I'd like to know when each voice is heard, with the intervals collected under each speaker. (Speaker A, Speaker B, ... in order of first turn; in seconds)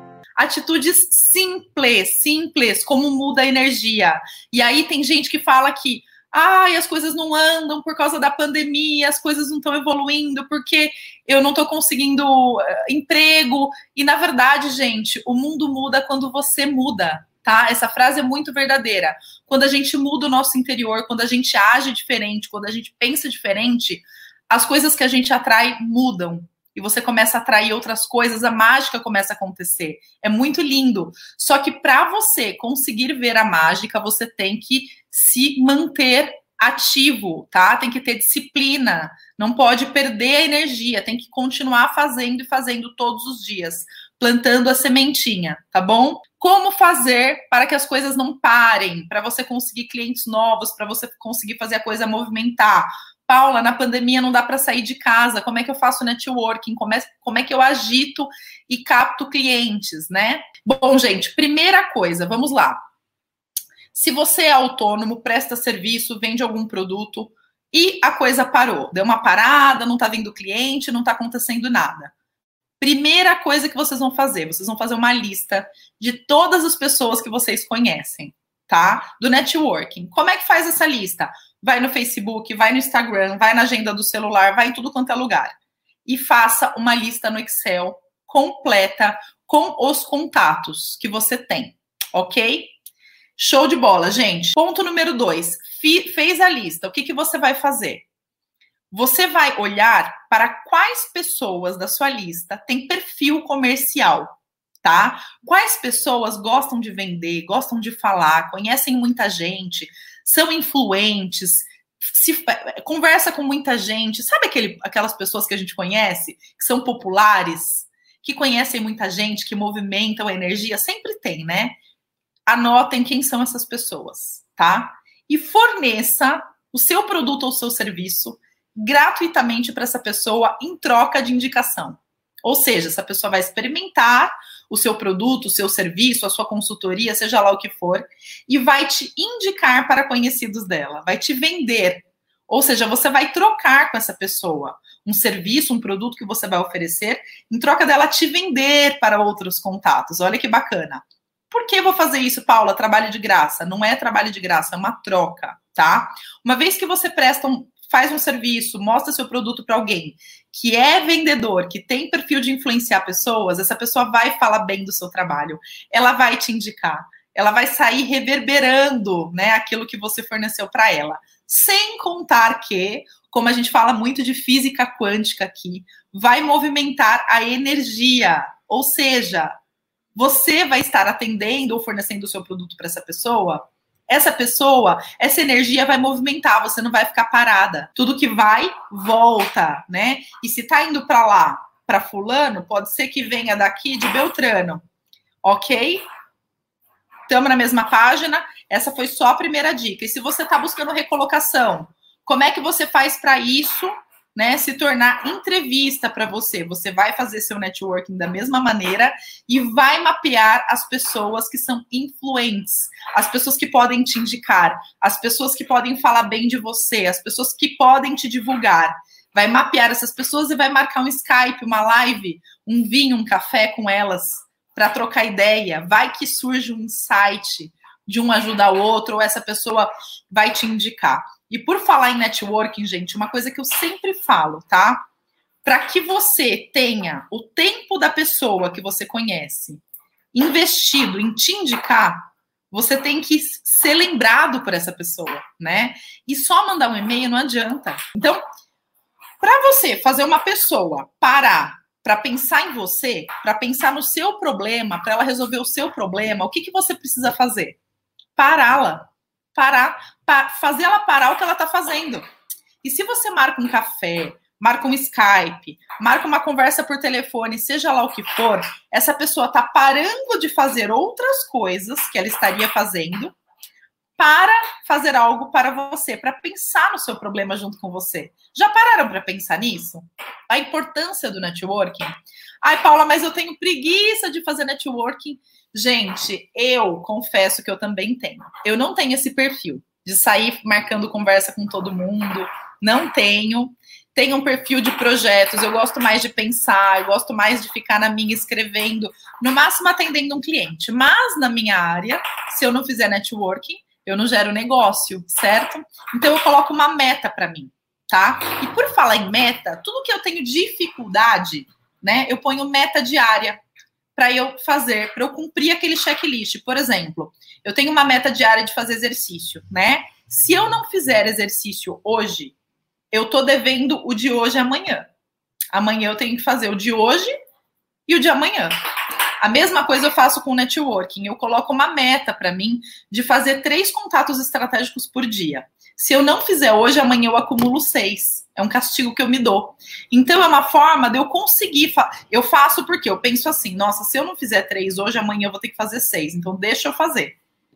Speaker A: 0.4-62.8, 63.9-72.1, 72.8-92.7, 93.4-98.1, 98.9-121.8, 122.5-179.6, 180.2-194.8, 195.4-196.0, 197.3-235.1, 235.7-239.8, 240.3-248.4, 249.4-257.8, 258.4-262.2, 262.8-273.4, 274.2-313.6, 314.2-322.6, 323.1-325.1, 325.7-327.3, 328.1-328.8, 329.4-347.4